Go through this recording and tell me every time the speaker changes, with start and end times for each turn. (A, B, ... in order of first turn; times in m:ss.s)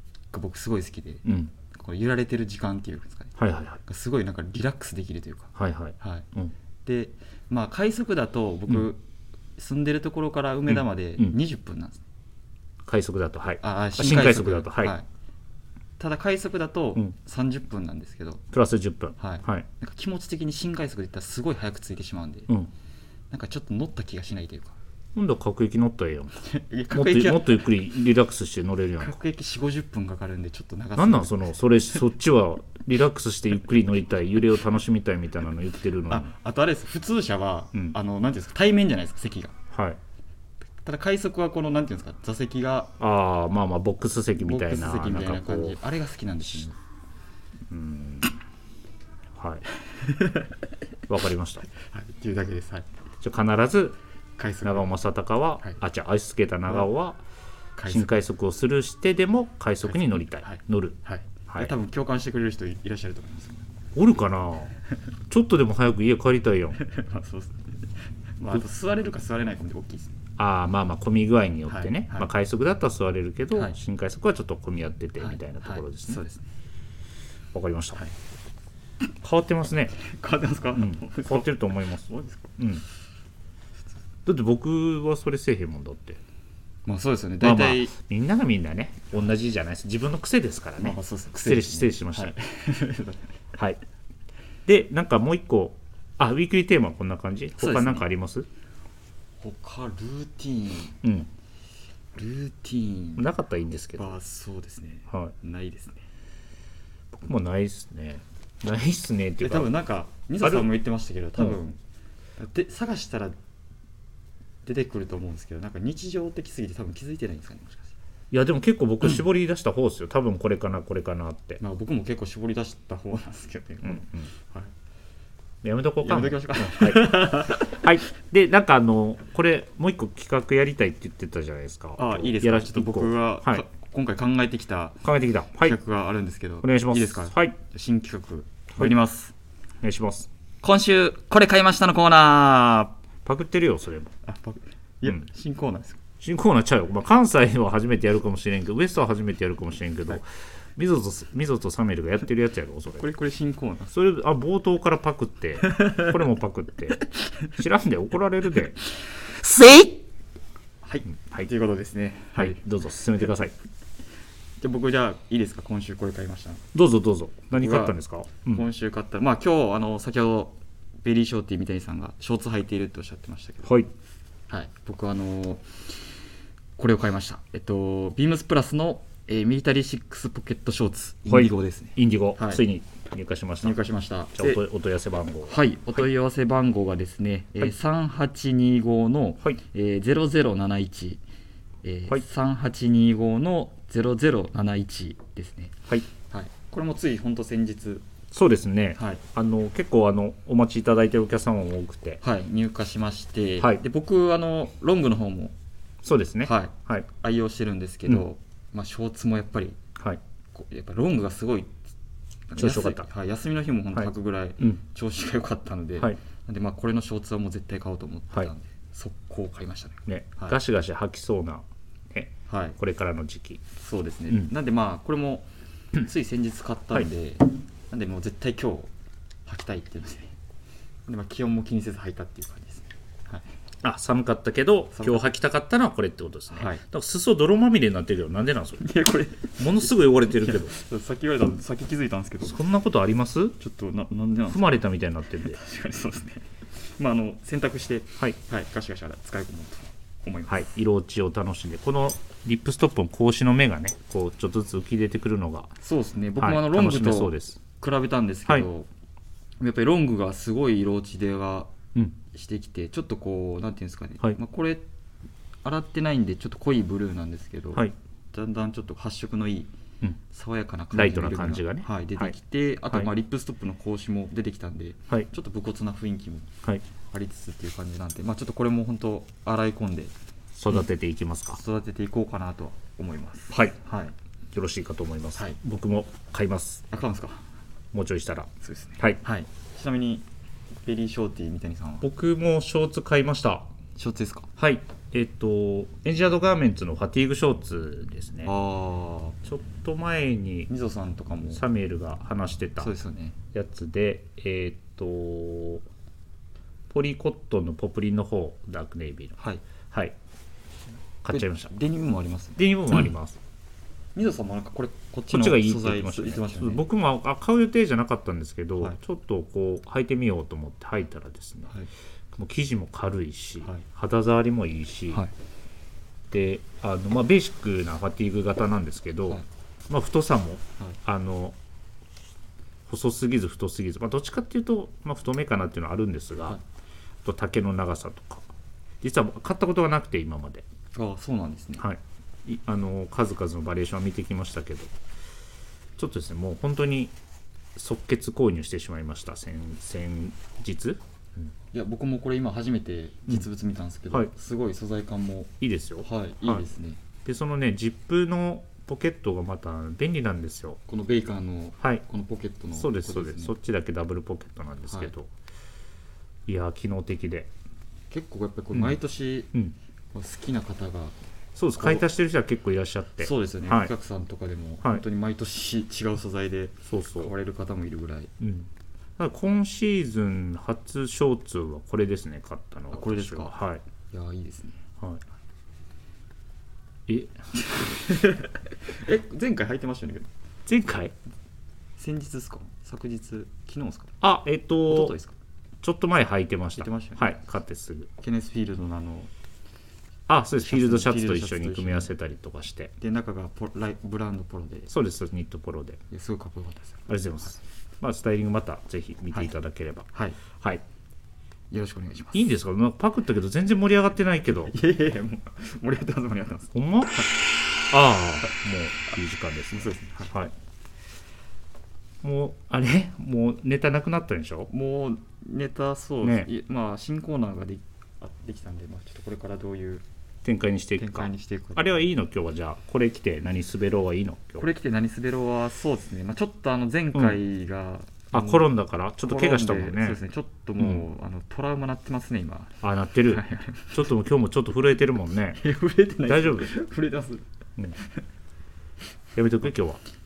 0:00.3-0:06.3 A
0:01.2-0:01.5 B
0:03.4-0:03.8 B
0:05.6-0:06.5 B
0:06.8-0:09.0 A
0:09.6-0:12.0 A
0:10.7-0:11.4 B
0:12.8-0:15.0 B
0:13.6-0:15.0 A
0:16.0-0:18.4 A
0:18.5-0:19.6 B
0:19.2-0:22.5 A
0:23.3-0:24.8 A
0:25.1-0:26.3 B
0:26.4-0:27.6 A
0:26.9-0:29.2 B
0:29.0-0:31.5 A
0:31.0-0:36.3 B
0:36.1-0:39.5 A
0:39.7-0:40.0 B
0:40.8-0:42.9 A
0:43.0-0:45.8 B
0:44.4-0:46.8 A
0:47.7-0:48.3 B
0:49.3-0:49.6 B
0:49.8-0:50.6 A
0:51.1-0:51.7 B
0:51.7-0:52.9 A
0:53.2-0:54.0 B
0:54.4-0:54.9 A
0:54.6-0:57.2 B
0:57.8-0:58.2 A
0:57.9-1:01.7 B
0:59.8-1:03.6 A
1:03.9-1:04.7 B
1:05.3-1:06.8 B
1:06.8-1:10.2 A
1:10.4-1:16.2 B
1:11.7-1:12.3 A
1:15.2-1:16.5 A
1:17.5-1:18.0 B
1:19.2-1:20.0 B
1:20.0-1:22.6 A
1:20.8-1:22.0 B
1:22.6-1:22.8 B
1:24.2-1:26.2 B
1:26.8-1:27.9 A
1:27.4-1:32.3 B
1:30.8-1:33.3 A
1:34.6-1:38.5 B
1:37.6-1:38.1 A
1:39.4-1:41.0 A
1:41.0-1:41.3 B
1:42.1-1:43.3 A
1:43.2-1:44.2 B
1:44.0-1:46.0 A
1:47.2-1:49.7 B
1:49.4-1:51.8 A
1:50.4-1:50.7 B
1:52.4-1:53.4 A
1:54.6-1:57.9 A
1:58.3-2:01.6 B
2:01.6-2:04.7 A
2:03.8-2:04.3 B
2:05.6-2:13.6 B
2:06.0-2:07.8 A
2:12.0-2:19.3 A
2:15.0-2:15.8 B
2:16.6-2:17.6 B
2:19.8-2:20.3 B
2:20.6-2:22.9 A
2:23.2-2:24.1 B
2:24.2-2:26.0 A
2:26.2-2:30.2 B
2:30.8-2:33.0 B
2:33.0-2:33.9 A
2:33.9-2:38.8 B
2:35.6-2:36.1 A
2:39.2-2:40.0 A
2:40.8-2:42.6 A
2:42.4-2:43.5 B
2:44.6-2:46.6 A
2:46.7-2:48.6 B
2:47.5-2:48.0 A
2:48.5-2:53.7 A
2:53.6-2:53.9 B
2:54.5-2:56.0 A
2:56.8-3:02.6 A
3:01.3-3:03.8 B
3:03.6-3:04.6 A
3:04.3-3:05.5 B
3:05.4-3:11.2 A
3:11.8-3:18.0 A
3:18.3-3:22.2 B
3:19.0-3:19.2 A
3:22.2-3:25.5 A
3:26.0-3:27.0 B
3:26.4-3:29.8 A
3:30.5-3:31.7 A
3:32.5-3:40.6 A
3:32.6-3:33.0 B
3:40.1-3:43.6 B
3:42.5-3:42.8 A
3:43.8-3:48.9 A
3:49.4-3:50.3 A
3:51.1-3:53.5 A
3:53.8-3:58.9 B
3:54.9-3:55.2 A
3:56.5-3:56.8 A
3:58.8-4:02.6 A
3:59.6-4:00.7 B
4:02.4-4:03.6 B
4:03.6-4:04.8 A
4:04.5-4:05.6 B
4:05.4-4:10.6 A
4:10.5-4:15.7 B
4:15.8-4:18.9 A
4:16.4-4:17.6 B
4:19.6-4:24.8 A
4:25.6-4:29.7 A
4:30.3-4:36.5 A
4:30.9-4:32.3 B
4:37.1-4:40.1 A
4:40.6-4:41.6 B
4:41.5-4:44.1 A
4:44.5-4:46.8 B
4:46.9-4:47.4 A
4:47.9-4:49.2 B
4:48.6-4:50.3 A
4:50.8-4:52.1 A
4:52.0-4:53.7 B
4:54.0-4:54.5 A
4:54.6-4:58.5 B
4:58.4-4:59.4 A
4:59.4-5:00.7 B
5:00.7-5:01.6 A
5:01.5-5:02.9 B
5:02.8-5:03.4 A
5:03.5-5:05.8 B
5:06.9-5:09.4 B
5:11.2-5:11.7 B
5:11.3-5:13.1 A
5:12.6-5:13.4 B
5:14.1-5:16.8 A
5:15.3-5:21.7 B
5:22.3-5:25.2 B
5:26.3-5:31.6 B
5:32.9-5:36.6 B
5:37.2-5:38.5 B
5:39.0-5:40.6 B
5:40.9-5:41.8 A
5:41.8-5:44.9 B
5:46.0-5:47.1 B
5:47.8-5:51.5 B
5:51.7-5:57.0 A
5:55.6-5:56.6 B
5:57.2-6:00.8 B
6:00.9-6:03.5 A
6:02.7-6:05.3 B
6:06.5-6:07.5 B
6:08.1-6:09.5 A
6:10.1-6:11.2 A
6:11.6-6:13.9 B
6:11.8-6:12.0 A
6:13.2-6:18.3 A
6:16.8-6:17.3 B
6:18.4-6:23.8 B
6:22.9-6:23.6 A
6:24.1-6:24.8 A
6:27.1-6:27.3 B
6:27.5-6:30.3 A
6:30.7-6:31.1 B
6:32.0-6:34.2 A
6:34.2-6:35.1 B
6:34.9-6:35.3 A
6:35.8-6:38.1 B
6:36.8-6:37.4 A
6:38.2-6:39.3 A
6:40.3-6:42.9 B
6:40.6-6:42.1 A
6:43.0-6:44.9 A
6:44.9-6:46.0 B
6:46.1-6:47.1 A
6:47.1-6:50.8 B
6:50.1-6:50.4 A
6:51.7-6:52.5 A
6:52.3-6:54.7 B
6:54.7-6:57.3 A
6:56.7-6:57.2 B
6:57.9-7:00.5 B
6:59.7-7:00.4 A
7:02.2-7:04.7 B
7:04.7-7:10.0 A
7:06.2-7:06.5 B
7:10.4-7:14.6 B
7:11.0-7:11.9 A
7:14.6-7:18.7 A
7:17.1-7:17.4 B
7:18.3-7:20.2 B
7:19.2-7:24.1 A
7:22.8-7:25.6 B
7:25.5-7:27.4 A
7:26.3-7:26.7 B
7:29.4-7:30.0 B